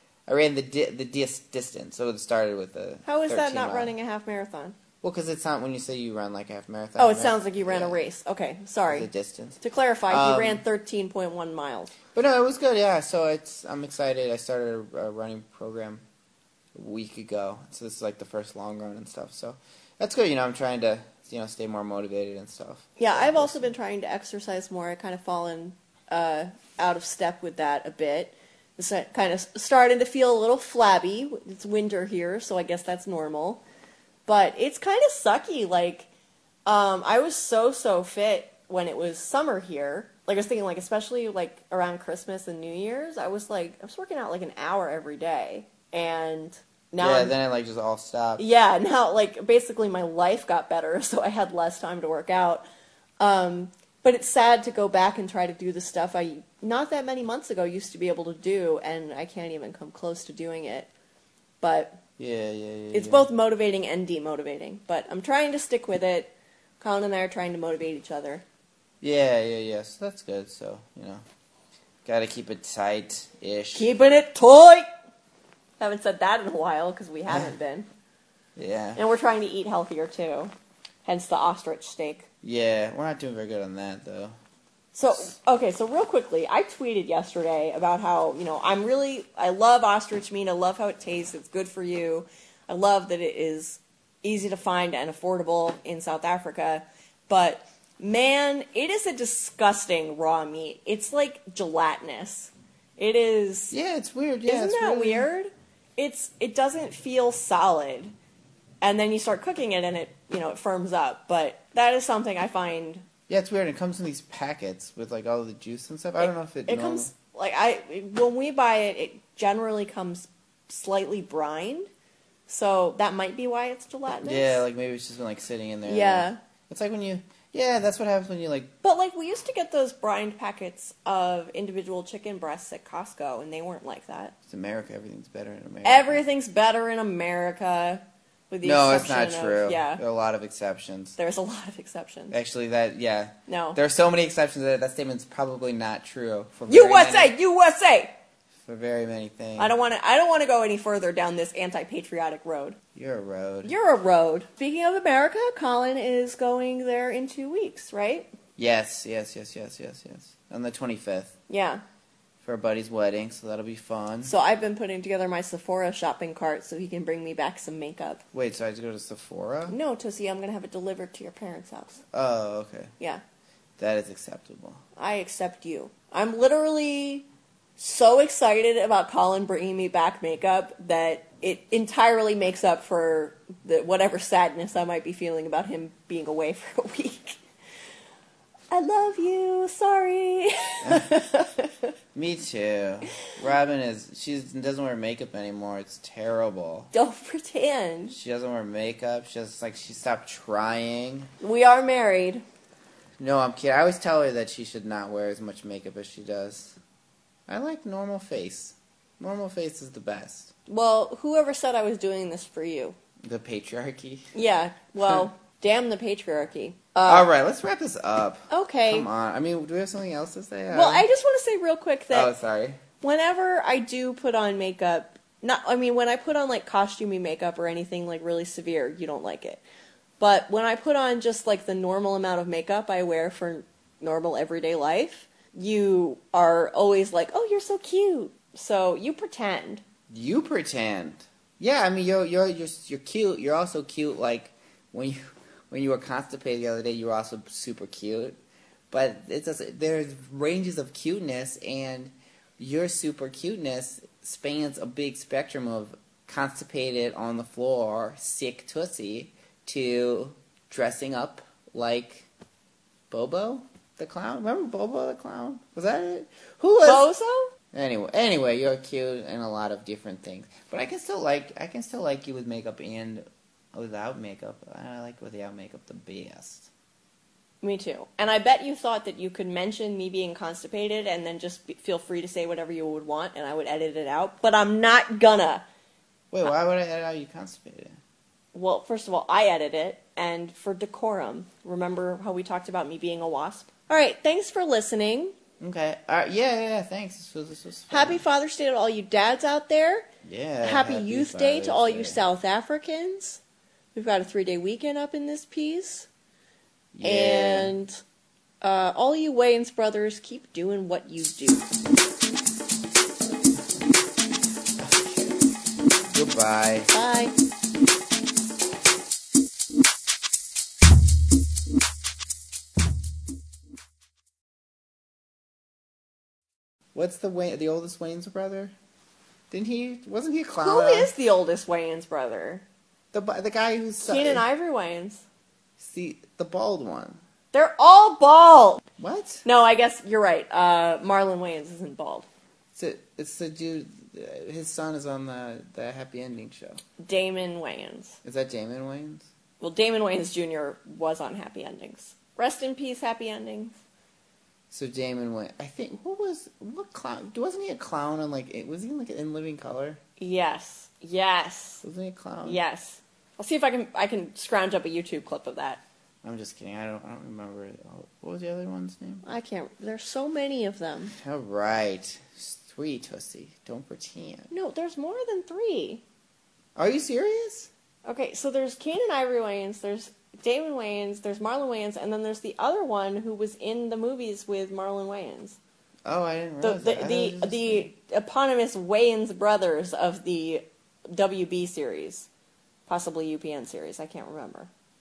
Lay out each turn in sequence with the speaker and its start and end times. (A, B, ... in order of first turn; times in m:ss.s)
0:00.3-0:03.9 A
0:03.0-0:04.8 B
0:05.0-0:08.0 A
0:07.0-0:09.1 B
0:08.9-0:10.6 A
0:09.6-0:11.9 B
0:12.1-0:16.0 A
0:16.8-0:23.7 A
0:23.0-0:33.6 B
0:34.3-0:36.1 B
0:36.6-0:47.4 B
0:47.0-0:48.4 A
0:48.4-0:52.6 B
0:53.2-1:00.9 B
1:01.6-1:02.0 B
1:02.2-1:03.3 A
1:02.9-1:08.4 B
1:09.0-1:11.2 A
1:12.0-1:13.9 A
1:13.7-1:14.9 B
1:15.8-1:17.9 B
1:17.3-1:17.5 A
1:18.6-1:19.0 A
1:19.0-1:20.5 B
1:21.0-1:22.2 B
1:22.4-1:24.4 A
1:24.9-1:43.8 B
1:43.7-1:45.3 A
1:44.5-1:48.1 B
1:48.8-1:53.0 B
1:53.3-1:57.1 A
1:56.2-2:01.9 B
2:02.5-2:04.6 B
2:04.2-2:08.7 A
2:05.9-2:06.4 B
2:08.8-2:14.3 B
2:14.5-2:16.2 A
2:15.8-2:20.0 B
2:18.6-2:21.2 A
2:21.2-2:22.4 B
2:22.3-2:27.3 A
2:23.5-2:23.8 B
2:26.7-2:28.1 B
2:28.6-2:29.8 A
2:29.6-2:32.8 B
2:33.0-2:33.7 A
2:33.6-2:38.3 B
2:38.6-2:41.4 A
2:41.5-2:41.8 B
2:42.4-2:44.3 A
2:44.2-2:48.2 B
2:48.3-2:49.8 A
2:49.7-2:52.0 B
2:52.1-2:52.9 A
2:53.8-2:54.8 A
2:55.0-3:07.4 B
3:08.7-3:11.7 B
3:10.8-3:11.1 A
3:12.1-3:16.9 A
3:16.9-3:18.2 B
3:18.1-3:21.3 A
3:21.4-3:22.4 B
3:23.2-3:26.8 A
3:27.5-3:30.5 A
3:30.7-3:33.0 B
3:33.2-3:34.3 A
3:34.3-3:37.3 B
3:37.0-3:41.1 A
3:38.5-3:39.1 B
3:40.7-3:42.3 B
3:42.1-3:42.8 A
3:43.0-3:49.6 B
3:50.2-3:59.8 B
4:00.1-4:08.4 A
4:08.9-4:22.3 A
4:23.1-4:27.1 A
4:26.8-4:27.5 B
4:27.7-4:36.7 A
4:37.6-4:45.6 B
4:46.3-4:48.0 A
4:48.5-4:55.3 B
4:55.6-4:58.2 A
4:57.9-5:00.1 B
5:00.2-5:02.2 A
5:00.6-5:03.4 B
5:04.0-5:06.1 B
5:07.0-5:07.7 A
5:07.0-5:07.9 B
5:08.6-5:11.7 B
5:14.8-5:15.5 A
5:16.1-5:16.9 A
5:16.9-5:17.3 B
5:27.0-5:28.7 A
5:29.5-5:31.1 A
5:30.6-5:32.6 B
5:33.1-5:34.4 A
5:34.0-5:35.2 B
5:35.8-5:37.2 A
5:37.5-5:38.8 B
5:39.0-5:39.4 A
5:39.4-5:42.3 B
5:42.8-5:46.8 A
5:47.0-5:48.2 B
5:48.2-5:49.3 A
5:49.6-5:53.8 B
5:54.7-6:00.0 A
6:00.2-6:01.8 B
6:01.8-6:02.6 A
6:02.4-6:05.8 B
6:06.2-6:09.3 A
6:09.2-6:11.1 B
6:11.1-6:14.5 A
6:14.5-6:16.0 B
6:16.8-6:17.7 A
6:18.0-6:25.6 B
6:26.1-6:27.9 A
6:26.6-6:32.3 B
6:32.9-6:34.7 B